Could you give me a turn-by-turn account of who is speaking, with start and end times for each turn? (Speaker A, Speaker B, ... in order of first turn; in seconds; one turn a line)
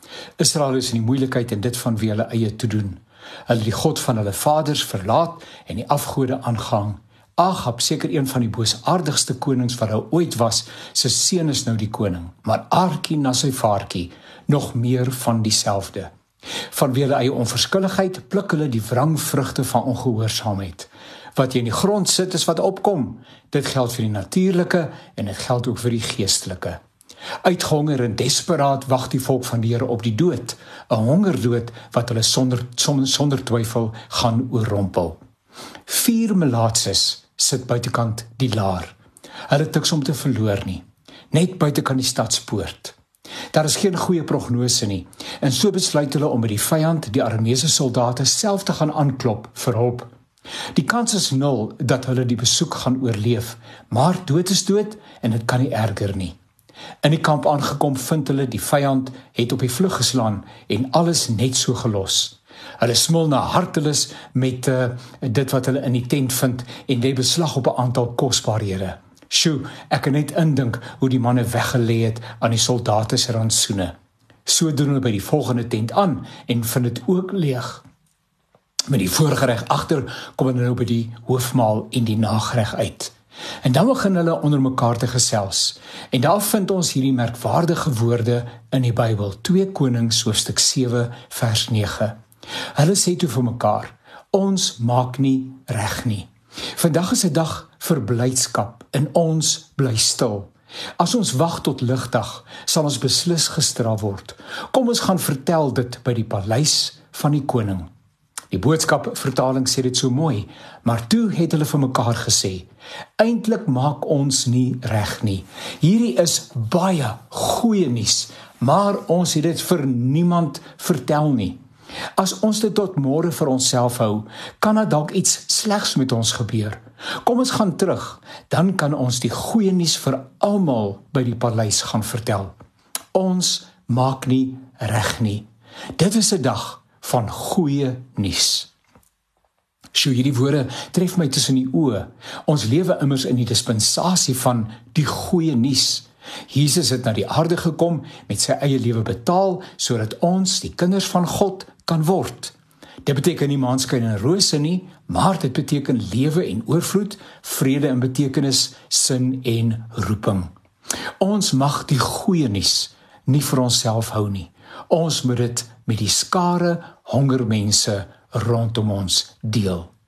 Speaker A: 0.4-16.1
Speaker A: 16.7-26.8
Speaker A: 27.4-35.2
Speaker A: 35.9-38.9
Speaker A: 39.5-43.0
Speaker A: 43.5-50.1
Speaker A: 50.7-56.3
Speaker A: 57.0-73.9
Speaker A: 74.5-77.8
Speaker A: 78.9-92.2
Speaker A: 92.8-107.9
Speaker A: 108.5-112.7
Speaker A: 113.2-121.6
Speaker A: 122.2-132.5
Speaker A: 133.1-135.4
Speaker A: 136.0-138.7
Speaker A: 139.9-160.5
Speaker A: 161.2-169.9